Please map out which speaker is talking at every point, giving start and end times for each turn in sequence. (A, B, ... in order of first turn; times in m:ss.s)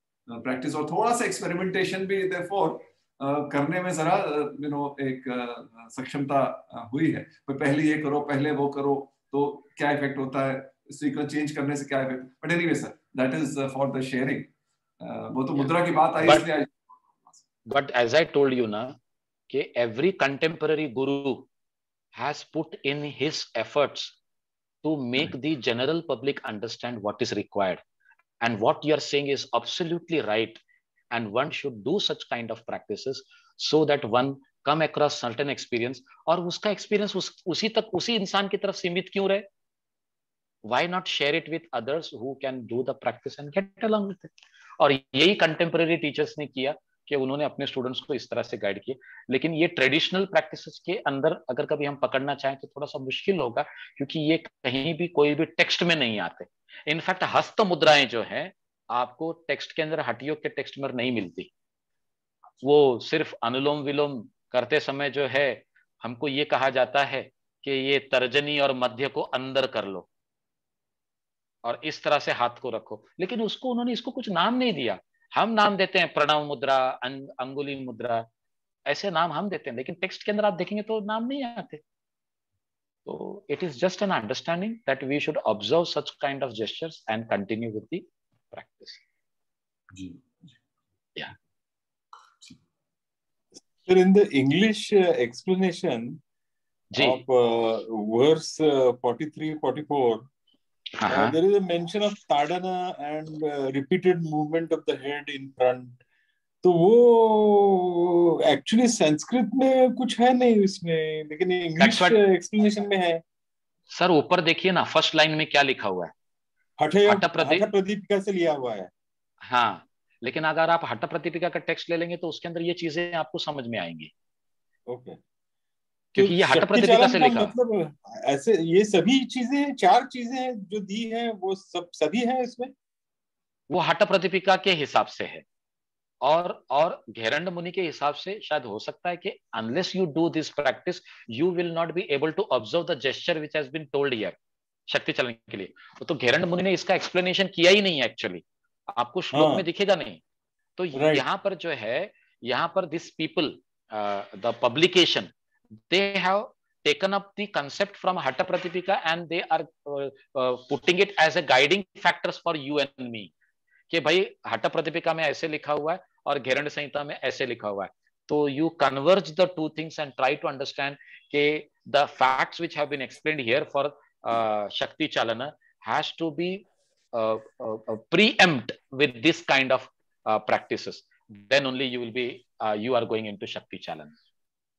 0:00.3-0:17.4 A
0:15.6-0:16.5 B
0:17.7-0:19.0 B
0:19.5-0:21.5 B
0:22.2-0:24.2 B
0:24.8-0:27.8 B
0:28.4-0:30.6 B
0:31.1-0:39.4 B
0:40.6-1:01.5 B
1:02.6-1:10.1 B
1:11.6-1:18.3 B
1:18.9-1:21.8 B
1:23.1-1:29.0 B
1:29.9-1:30.6 A
1:33.8-1:36.2 C
1:36.9-1:37.2 B
1:37.0-1:40.3 C
1:41.0-1:41.4 B
1:41.1-1:46.0 C
1:46.6-1:53.2 C
1:51.8-1:52.2 B
1:53.9-1:56.1 B
1:56.8-1:58.9 C
1:57.1-1:57.7 B
1:59.4-2:04.1 B
2:04.9-2:05.2 C
2:06.2-2:07.5 B
2:06.2-2:12.7 C
2:13.7-2:15.4 B
2:16.2-2:24.4 B
2:24.9-2:30.2 B
2:29.3-2:29.6 C
2:30.8-2:43.3 B
2:30.9-2:31.2 C
2:43.9-3:04.2 B